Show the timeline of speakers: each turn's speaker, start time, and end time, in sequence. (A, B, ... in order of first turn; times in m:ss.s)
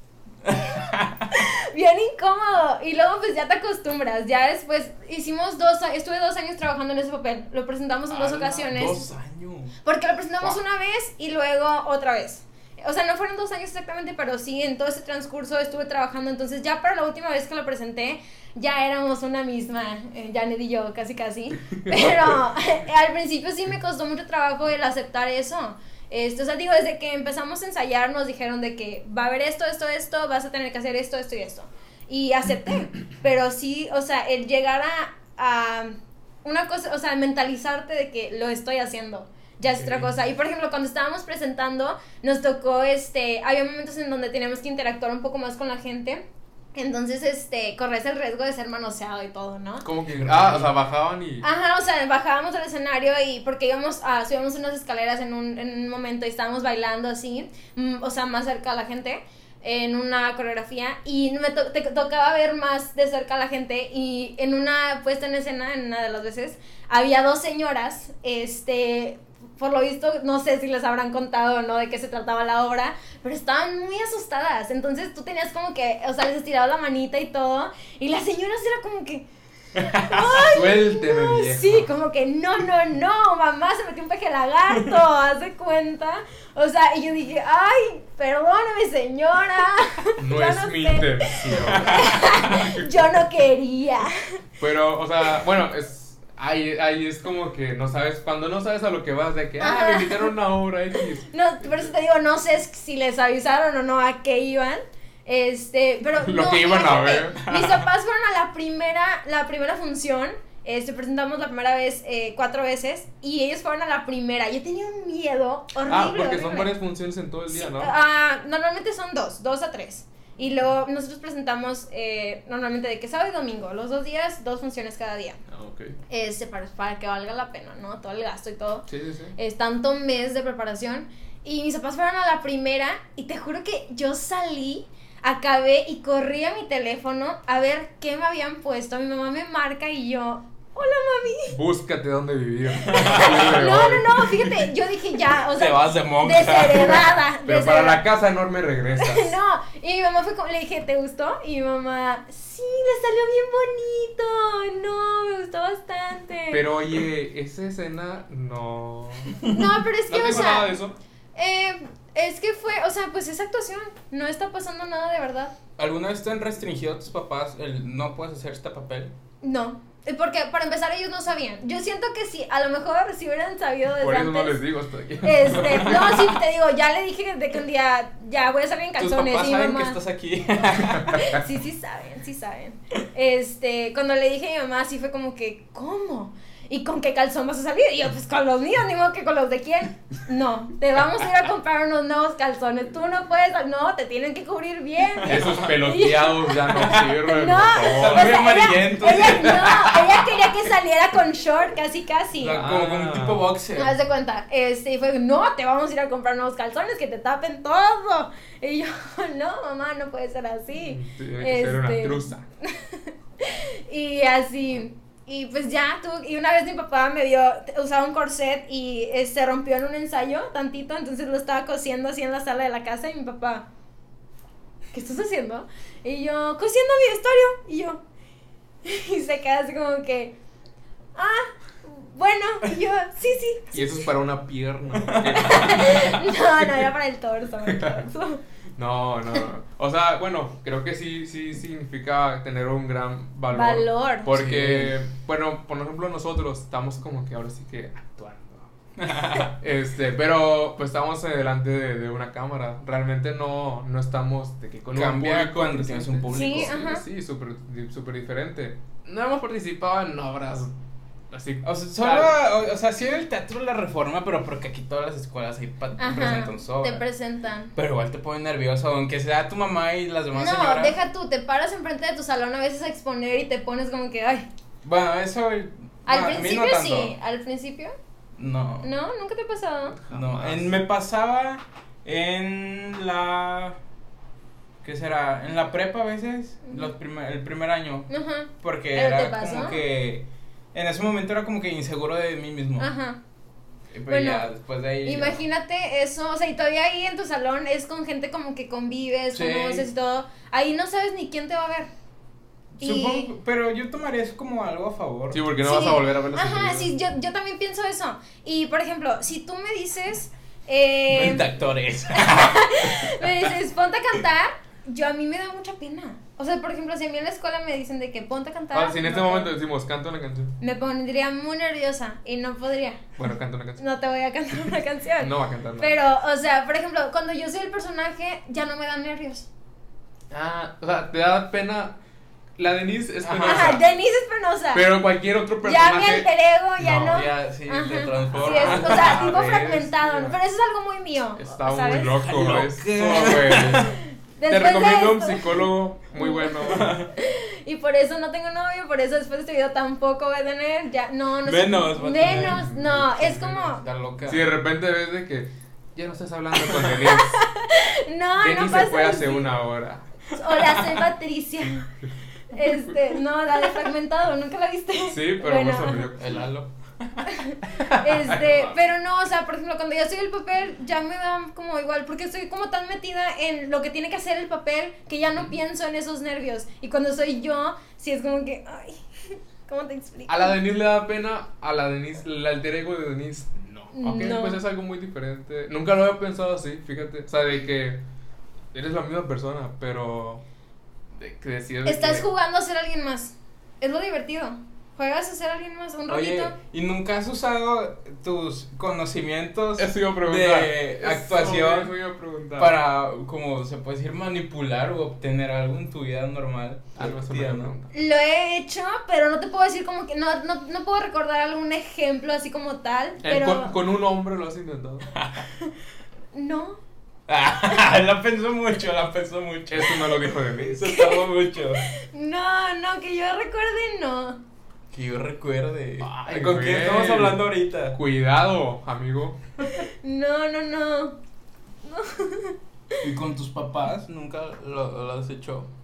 0:00.4-0:01.3 A
0:00.8-0:09.1 B
0:08.1-0:09.8 A
0:09.8-0:49.8 B
0:39.7-0:40.1 C
0:49.8-0:51.5 C
0:50.1-0:50.7 A
0:51.4-1:19.3 B
1:19.8-1:34.4 B
1:20.1-1:21.9 C
1:30.2-1:32.9 C
1:34.6-1:41.9 C
1:39.6-1:40.3 B
1:41.0-1:56.8 B
1:46.2-1:47.5 C
1:47.5-1:47.8 A
1:55.9-1:57.9 C
1:57.5-2:05.4 B
2:05.5-2:06.0 C
2:06.1-2:08.9 B
2:08.9-2:09.4 C
2:09.4-2:21.6 B
2:21.5-2:24.6 C
2:22.8-2:23.7 A
2:22.8-2:28.0 B
2:25.5-2:27.2 A
2:27.4-2:29.4 C
2:29.0-2:36.7 B
2:36.5-2:39.5 C
2:39.4-2:40.8 B
2:40.1-2:41.0 C
2:41.4-2:45.6 B
2:45.8-2:49.1 A
2:49.4-2:54.6 B
2:54.0-2:56.2 C
2:55.2-3:00.0 B
2:55.6-2:56.2 A
2:59.0-3:01.4 A
3:01.1-3:22.6 B
3:15.2-3:15.6 A
3:15.2-3:18.5 C
3:17.9-3:19.9 A
3:19.1-3:20.2 C
3:22.4-3:24.0 A
3:22.5-3:23.5 C
3:23.8-3:43.7 B
3:30.7-3:32.4 C
3:44.9-3:48.0 B
3:48.8-3:50.4 B
3:51.2-3:54.1 B
3:53.7-3:56.3 C
3:55.0-3:55.5 A
3:55.3-3:58.4 B
3:57.7-3:58.0 C
3:58.8-4:20.7 C
4:03.5-4:04.3 B
4:04.3-4:05.0 A
4:09.0-4:09.5 A
4:14.9-4:16.8 A
4:16.3-4:17.0 B
4:21.3-4:22.4 C
4:21.6-4:27.0 A
4:26.0-4:27.7 B
4:27.8-4:31.0 A
4:30.4-4:34.5 B
4:34.8-4:37.2 A
4:36.1-4:38.0 B
4:38.4-4:38.9 A
4:38.8-4:40.0 B
4:40.0-4:40.8 C
4:40.1-4:43.8 A
4:44.8-4:48.1 A
4:46.7-4:46.9 B
4:48.1-4:49.8 B
4:48.6-4:52.9 A
4:52.8-4:53.2 B
4:53.9-4:55.4 A
4:54.1-4:54.5 B
4:55.0-5:01.9 B
4:59.3-4:59.9 A
5:02.8-5:03.3 B
5:02.8-5:05.4 A
5:05.3-5:06.9 C
5:05.6-5:11.6 B
5:11.1-5:13.5 A
5:12.1-5:19.5 B
5:18.7-5:20.6 C
5:20.6-5:23.1 B
5:23.2-5:23.8 C
5:23.8-5:29.5 B
5:25.2-5:26.0 C
5:30.3-5:32.0 C
5:32.6-5:33.8 C
5:33.2-5:33.8 A
5:33.4-5:35.0 B
5:34.7-5:37.2 C
5:35.6-5:42.2 B
5:37.1-5:39.7 A
5:38.3-5:40.4 C
5:41.4-5:47.0 C
5:42.2-5:44.0 A
5:43.8-5:53.9 B
5:46.6-5:47.1 A
5:51.4-5:52.7 A
5:52.2-5:57.5 C
5:53.7-5:54.5 A
5:57.0-5:59.5 B
5:58.4-6:00.1 C
6:00.3-6:01.9 B
6:02.5-6:06.1 B
6:02.6-6:02.9 C
6:05.1-6:06.5 C
6:06.2-6:07.4 A
6:07.3-6:20.6 B
6:07.7-6:08.7 C
6:20.3-6:28.0 C
6:23.9-6:24.6 B
6:28.7-6:30.4 C
6:31.2-6:32.3 C
6:31.9-6:36.5 B
6:36.1-6:42.0 A
6:39.8-6:42.8 C
6:42.6-6:47.7 A
6:47.0-6:47.9 C
6:47.9-6:53.8 B
6:53.2-6:55.1 C
6:55.1-6:55.5 A
6:56.3-6:56.8 B
6:57.3-7:01.9 A
6:59.7-7:00.9 C
7:00.8-7:04.4 B
7:04.9-7:08.0 A
7:06.0-7:09.4 C
7:09.6-7:11.2 B
7:11.8-7:13.1 B
7:13.0-7:15.7 A